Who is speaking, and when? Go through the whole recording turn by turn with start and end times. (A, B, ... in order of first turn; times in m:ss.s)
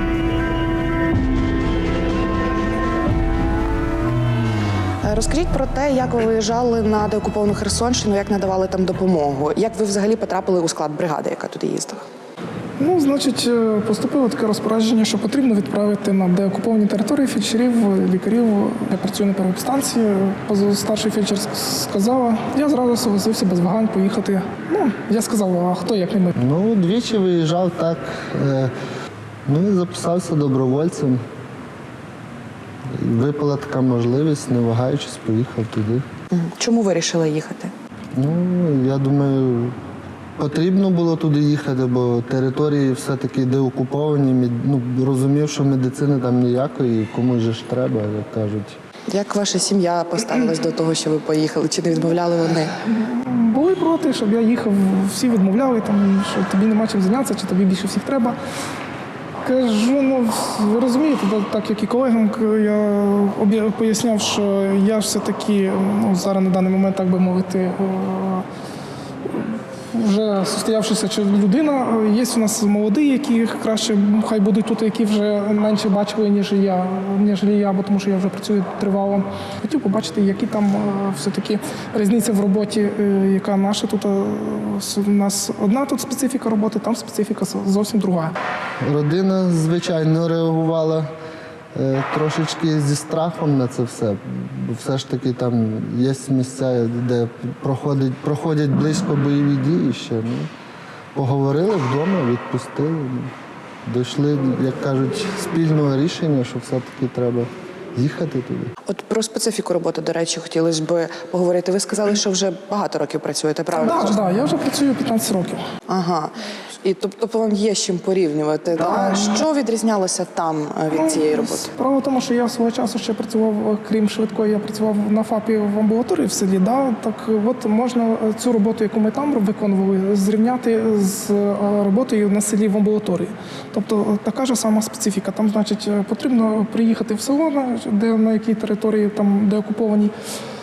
0:05.0-0:12.0 A
0:12.8-0:26.4 B
0:26.4-0:28.7 C
0:29.5-0:31.2 C
0:32.9-0:36.0 C
0:36.3-0:37.7 A
0:38.2-0:39.8 C
0:40.4-0:48.8 C
0:49.1-0:52.8 A
0:52.9-0:58.4 B
0:59.4-1:08.4 B
1:09.3-1:28.4 B
1:28.8-1:31.1 C
1:31.7-1:40.5 C
1:41.2-1:43.3 C
1:43.8-1:48.7 C
1:48.9-1:54.2 A
1:53.7-1:55.6 B
1:55.9-2:01.7 A
1:58.8-1:59.4 B
2:00.9-2:20.1 B